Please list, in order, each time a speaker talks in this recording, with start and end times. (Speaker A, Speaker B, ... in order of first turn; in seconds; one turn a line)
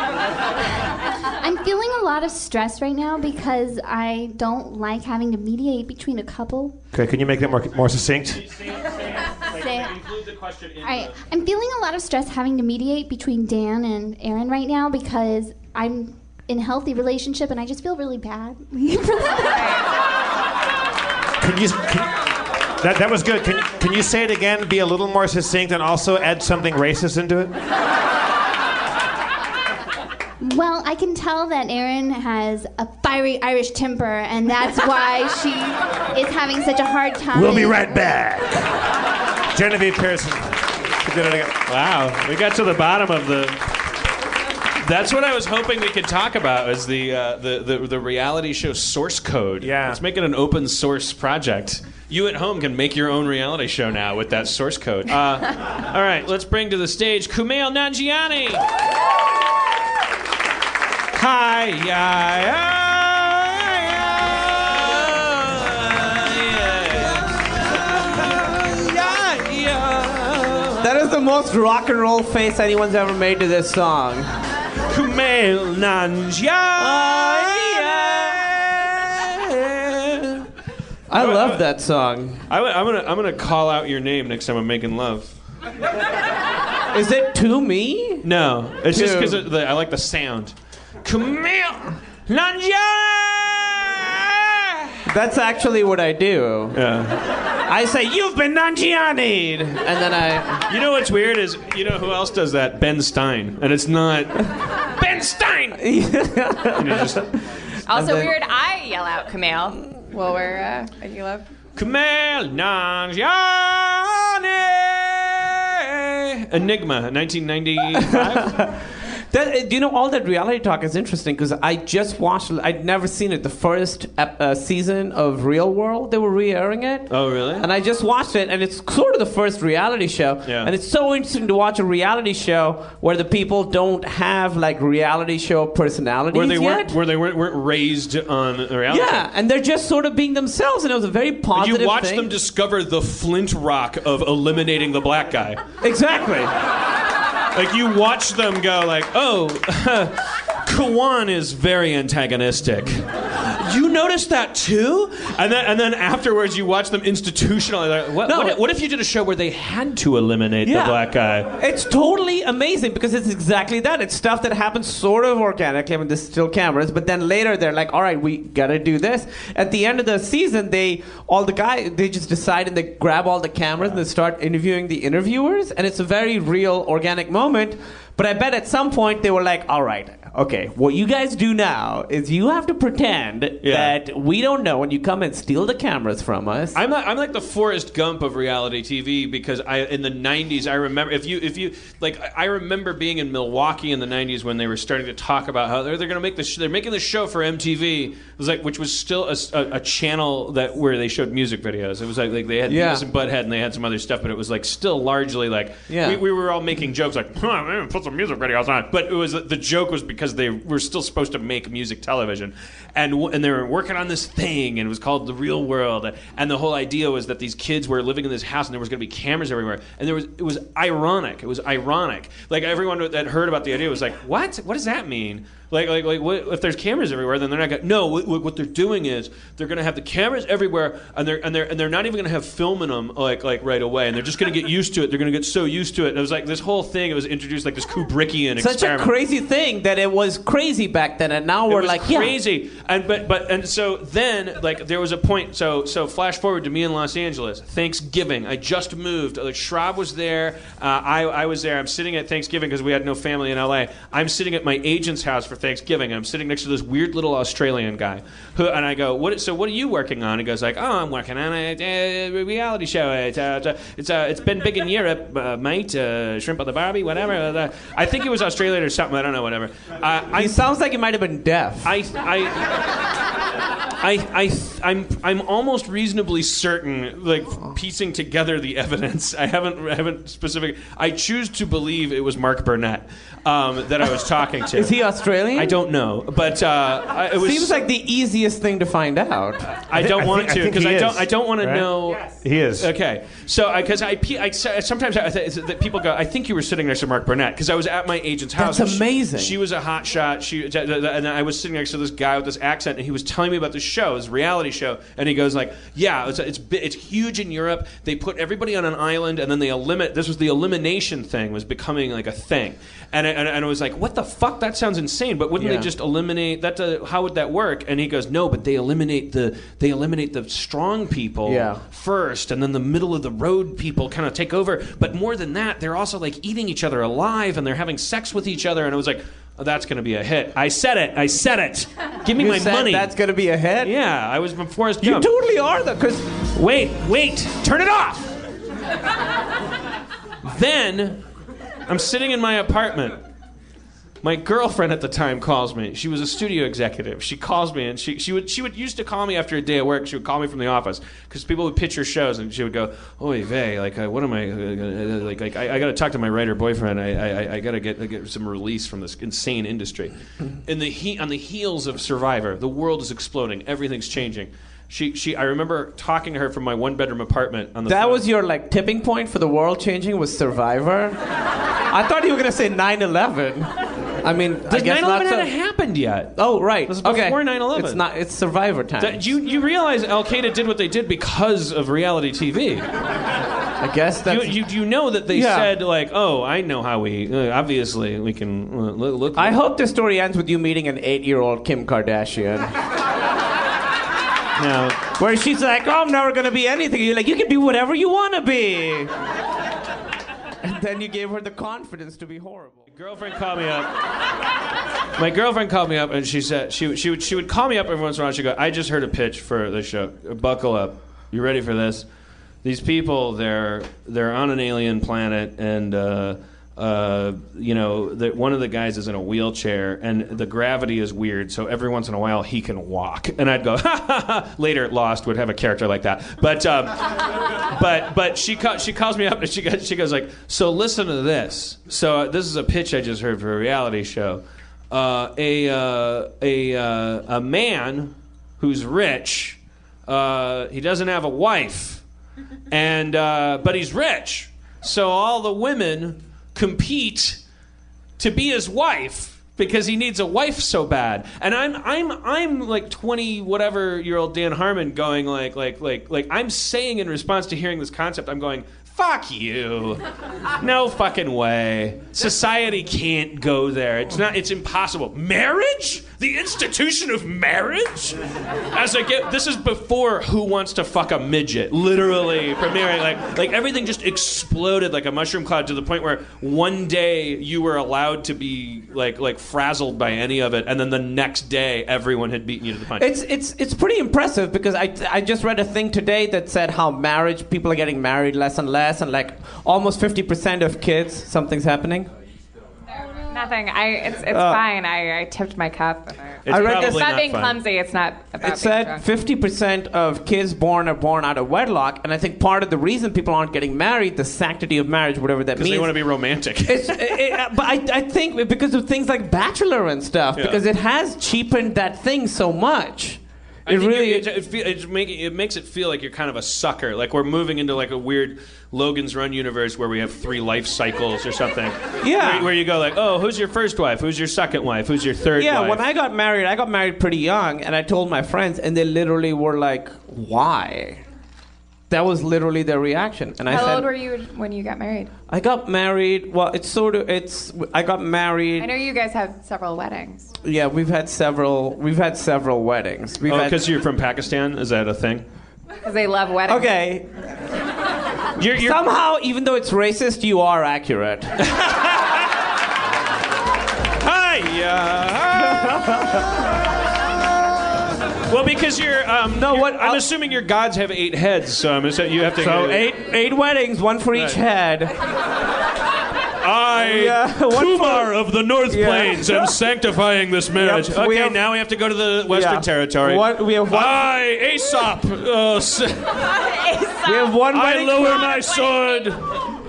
Speaker A: 1.3-6.7
Speaker B: 6.9-8.4
Speaker C: 8.3-11.1
Speaker A: 9.4-10.0
Speaker A: 10.8-19.8
Speaker B: 21.4-22.2
Speaker B: 22.8-27.5
Speaker A: 30.4-38.0
Speaker C: 37.4-38.7
Speaker B: 39.5-41.6
Speaker C: 41.7-43.8
Speaker C: 44.8-58.6
Speaker B: 49.6-50.0
Speaker C: 61.1-71.0
Speaker D: 70.8-74.3
Speaker C: 74.9-80.5
Speaker D: 76.8-78.3
Speaker D: 81.1-82.4
Speaker C: 81.1-81.6
Speaker C: 82.5-85.3
Speaker D: 86.9-88.3
Speaker C: 88.2-95.0
Speaker D: 88.9-89.5
Speaker D: 95.1-96.8
Speaker C: 96.7-97.3
Speaker D: 97.7-100.6
Speaker C: 100.7-105.8
Speaker D: 105.8-107.4
Speaker C: 106.7-107.3
Speaker E: 107.9-111.5
Speaker D: 107.9-108.3
Speaker C: 111.8-118.8
Speaker D: 118.0-137.0
Speaker C: 127.1-127.7
Speaker C: 130.4-130.7
Speaker C: 136.3-139.3
Speaker D: 138.9-142.3
Speaker C: 141.5-145.6
Speaker D: 145.8-146.5
Speaker C: 147.5-161.5
Speaker D: 158.2-158.6
Speaker D: 160.7-186.8
Speaker C: 183.6-183.9
Speaker C: 186.7-239.1
Speaker D: 202.7-203.1
Speaker D: 205.9-206.2
Speaker D: 238.6-242.4
Speaker C: 241.7-270.7
Speaker D: 270.4-272.0
Speaker C: 271.8-272.9
Speaker C: 274.0-285.0
Speaker D: 284.7-285.8
Speaker C: 285.6-287.8
Speaker D: 287.3-289.8
Speaker C: 289.7-333.1
Speaker B: 289.9-292.9
Speaker D: 298.6-299.6
Speaker D: 315.6-315.9
Speaker D: 321.4-321.8
Speaker D: 332.4-333.9
Speaker C: 333.8-335.3
Speaker D: 335.0-336.4
Speaker C: 336.5-338.4
Speaker C: 340.4-341.2
Speaker C: 341.9-343.2
Speaker C: 344.2-368.2
Speaker D: 367.9-371.2
Speaker D: 371.9-375.5
Speaker C: 374.7-378.0
Speaker D: 376.4-379.3
Speaker C: 379.0-382.9
Speaker D: 383.8-384.6
Speaker C: 384.3-389.6
Speaker D: 385.3-385.7
Speaker D: 389.4-392.8
Speaker C: 394.6-395.0
Speaker D: 395.2-399.1
Speaker D: 400.6-402.8
Speaker C: 402.9-404.0
Speaker C: 405.2-412.1
Speaker C: 412.6-442.0
Speaker C: 442.7-447.4
Speaker C: 448.2-460.0
Speaker C: 460.6-483.1
Speaker D: 483.0-492.1
Speaker E: 493.1-499.1
Speaker D: 494.3-494.6
Speaker C: 496.5-497.6
Speaker D: 496.5-497.1
Speaker D: 498.4-506.1
Speaker C: 505.6-507.2
Speaker D: 506.6-514.3
Speaker C: 510.4-510.6
Speaker C: 513.7-525.8
Speaker D: 522.0-522.5
Speaker D: 525.4-531.0
Speaker D: 531.9-533.9
Speaker E: 533.5-535.1
Speaker D: 535.3-538.7
Speaker E: 538.6-540.3
Speaker D: 540.4-543.6
Speaker C: 543.2-545.3
Speaker E: 545.8-546.7
Speaker D: 546.5-547.1
Speaker C: 548.4-548.8
Speaker D: 548.4-551.4
Speaker C: 551.4-552.2
Speaker C: 554.0-556.3
Speaker D: 555.5-556.2
Speaker C: 558.3-562.9
Speaker D: 559.3-560.0
Speaker D: 562.4-564.9
Speaker C: 564.1-564.4
Speaker C: 566.4-576.4
Speaker D: 566.8-568.1
Speaker D: 568.7-569.5
Speaker D: 570.5-571.4
Speaker D: 572.3-574.1
Speaker E: 576.4-577.4
Speaker D: 577.0-578.3
Speaker C: 577.5-579.4
Speaker E: 578.0-579.1